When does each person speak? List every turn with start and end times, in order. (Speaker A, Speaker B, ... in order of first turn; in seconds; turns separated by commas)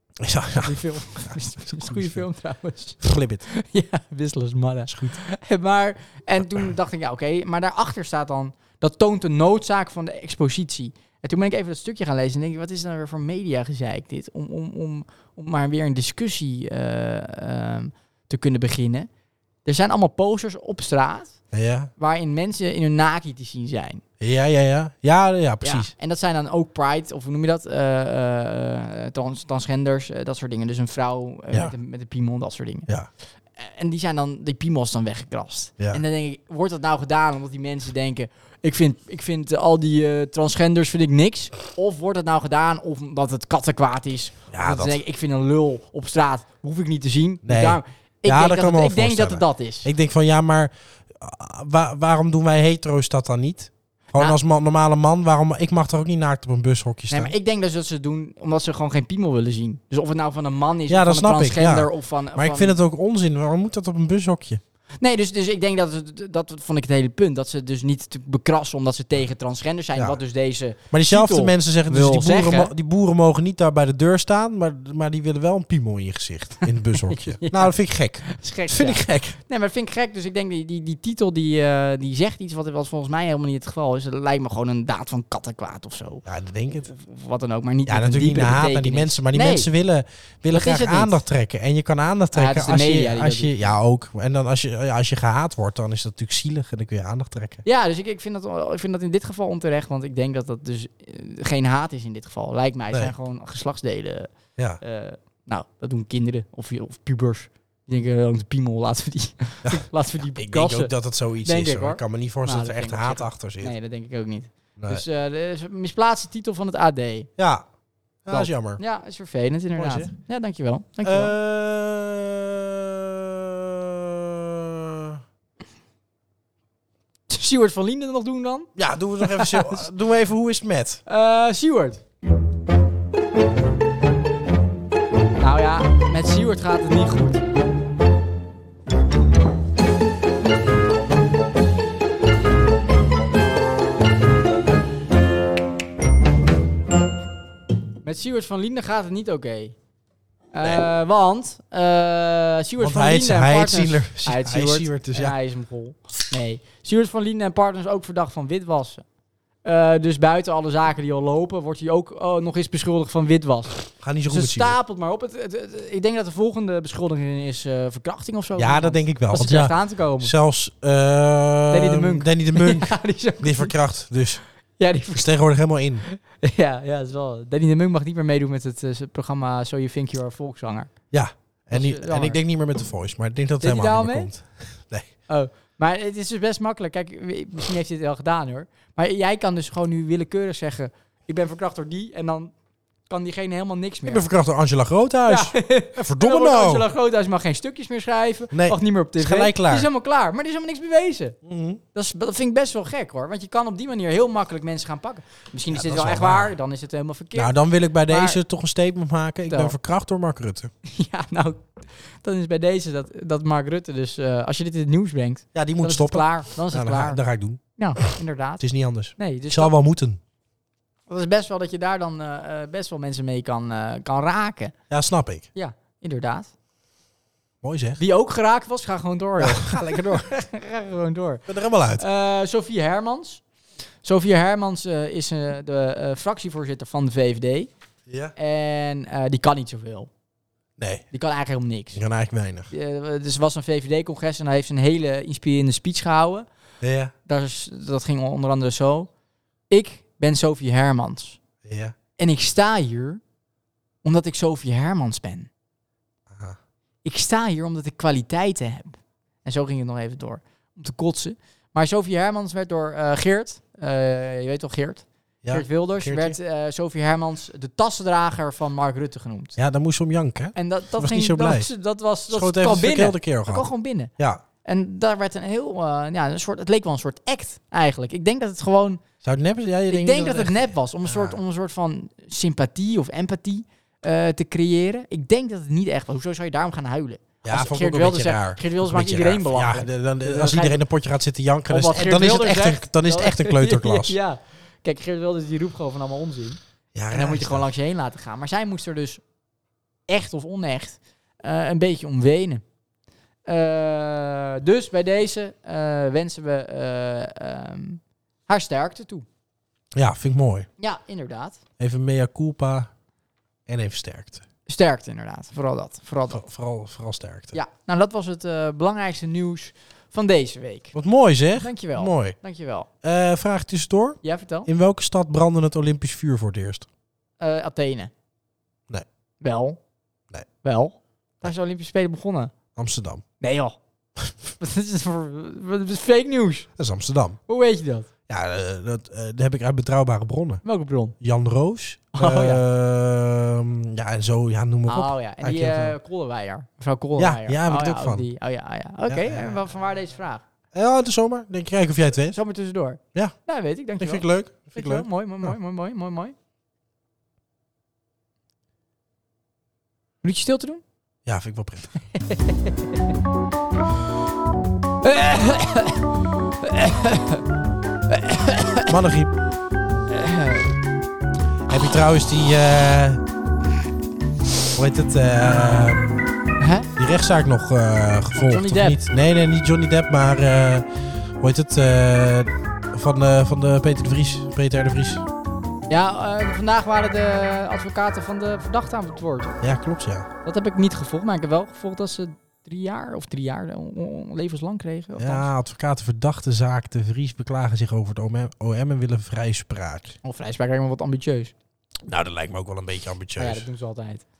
Speaker A: 0.2-2.2, Speaker B: 0.6-19.1, Speaker A: 3.0-3.5, Speaker A: 4.9-5.2, Speaker B: 19.6-21.4, Speaker A: 21.5-21.9, Speaker B: 22.0-24.0, Speaker A: 24.2-25.9, Speaker B: 25.6-32.9, Speaker B: 33.6-49.9, Speaker A: 44.5-45.0, Speaker A: 47.4-57.3, Speaker B: 57.1-62.8, Speaker A: 60.9-64.6, Speaker B: 65.0-72.7, Speaker A: 69.9-70.2, Speaker A: 70.9-79.4, Speaker B: 77.0-77.7, Speaker B: 78.2-86.2, Speaker A: 86.2-86.9, Speaker B: 86.8-89.7, Speaker A: 87.8-97.6, Speaker B: 90.5-91.2, Speaker B: 92.3-93.7, Speaker B: 97.6-117.3, Speaker A: 109.6-113.7, Speaker A: 114.8-115.0, Speaker A: 117.4-117.6, Speaker A: 118.2-118.8, Speaker B: 118.3-121.3, Speaker A: 119.8-120.1, Speaker A: 121.0-125.2, Speaker B: 127.3-129.8, Speaker A: 128.8-131.0, Speaker B: 131.1-132.0, Speaker B: 135.4-137.4, Speaker B: 148.0-149.7, Speaker B: 150.5-159.0, Speaker A: 152.8-155.3, Speaker B: 159.6-170.3, Speaker A: 164.0-164.8, Speaker A: 168.6-174.4, Speaker B: 171.7-173.7, Speaker B: 174.8-175.3, Speaker A: 175.1-176.0, Speaker B: 176.1-180.9, Speaker A: 181.1-185.1, Speaker B: 181.7-182.4, Speaker B: 183.6-184.3, Speaker B: 185.3-192.5, Speaker B: 193.1-194.3, Speaker A: 194.1-196.9, Speaker B: 195.2-201.4, Speaker A: 198.5-199.9, Speaker A: 201.4-201.8, Speaker B: 201.9-207.5, Speaker A: 205.7-206.5, Speaker A: 207.3-210.7, Speaker B: 208.1-208.4, Speaker B: 209.5-209.8, Speaker B: 210.8-217.2, Speaker A: 215.5-217.6, Speaker B: 217.8-218.6, Speaker A: 218.6-220.2, Speaker B: 219.2-219.7, Speaker B: 221.1-224.7, Speaker A: 224.9-225.5, Speaker B: 225.5-226.5, Speaker A: 227.6-228.0, Speaker B: 228.0-233.4, Speaker A: 229.4-230.3, Speaker A: 231.5-232.0, Speaker B: 234.0-237.7, Speaker A: 238.1-238.3, Speaker B: 238.3-240.1, Speaker A: 240.8-241.1, Speaker B: 241.1-242.0, Speaker A: 241.9-242.7, Speaker B: 242.7-246.5, Speaker A: 246.8-247.1, Speaker B: 247.3-249.1, Speaker B: 249.7-251.4, Speaker A: 251.6-251.9, Speaker B: 252.2-253.2, Speaker B: 254.0-255.5, Speaker A: 256.3-256.6, Speaker B: 257.0-269.5, Speaker A: 265.4-266.4, Speaker A: 269.6-271.7, Speaker B: 270.5-274.1, Speaker A: 272.3-274.4, Speaker B: 274.6-279.0, Speaker A: 279.2-281.4, Speaker B: 279.9-290.8, Speaker A: 287.4-294.1, Speaker B: 291.7-296.6, Speaker A: 296.9-297.7, Speaker B: 297.1-299.2, Speaker B: 300.1-302.6, Speaker B: 303.4-309.2, Speaker A: 309.9-310.7, Speaker B: 310.8-311.6, Speaker A: 311.8-312.9, Speaker A: 313.7-314.4, Speaker B: 314.7-316.4, Speaker A: 316.3-317.6, Speaker B: 317.5-320.9, Speaker A: 320.9-322.4, Speaker B: 321.6-322.9, Speaker A: 323.0-326.9, Speaker B: 324.2-324.7, Speaker B: 327.4-328.1, Speaker B: 329.4-329.8, Speaker B: 330.6-332.5, Speaker A: 332.7-333.2, Speaker B: 333.4-333.8, Speaker B: 334.6-336.7, Speaker A: 336.8-337.4, Speaker B: 337.5-338.1, Speaker A: 338.3-340.6, Speaker B: 340.6-341.1, Speaker A: 341.2-345.9, Speaker B: 342.1-342.6, Speaker B: 344.9-350.4, Speaker A: 347.2-348.3, Speaker A: 349.1-349.6, Speaker A: 350.7-352.4, Speaker B: 352.3-356.3, Speaker A: 354.0-355.5, Speaker B: 360.2-360.8, Speaker A: 361.2-362.0, Speaker B: 362.1-362.7, Speaker B: 365.0-366.0, Speaker B: 366.6-367.4, Speaker B: 368.1-368.9, Speaker A: 368.9-369.3, Speaker B: 370.1-370.7, Speaker A: 371.7-373.2, Speaker A: 374.7-376.2, Speaker B: 376.6-376.9, Speaker A: 377.0-380.9, Speaker B: 378.3-379.0, Speaker A: 381.4-385.2, Speaker B: 385.9-389.6, Speaker A: 389.6-390.3, Speaker B: 390.4-395.5, Speaker A: 395.2-400.2, Speaker B: 400.2-401.5, Speaker A: 402.0-403.7, Speaker B: 403.4-404.2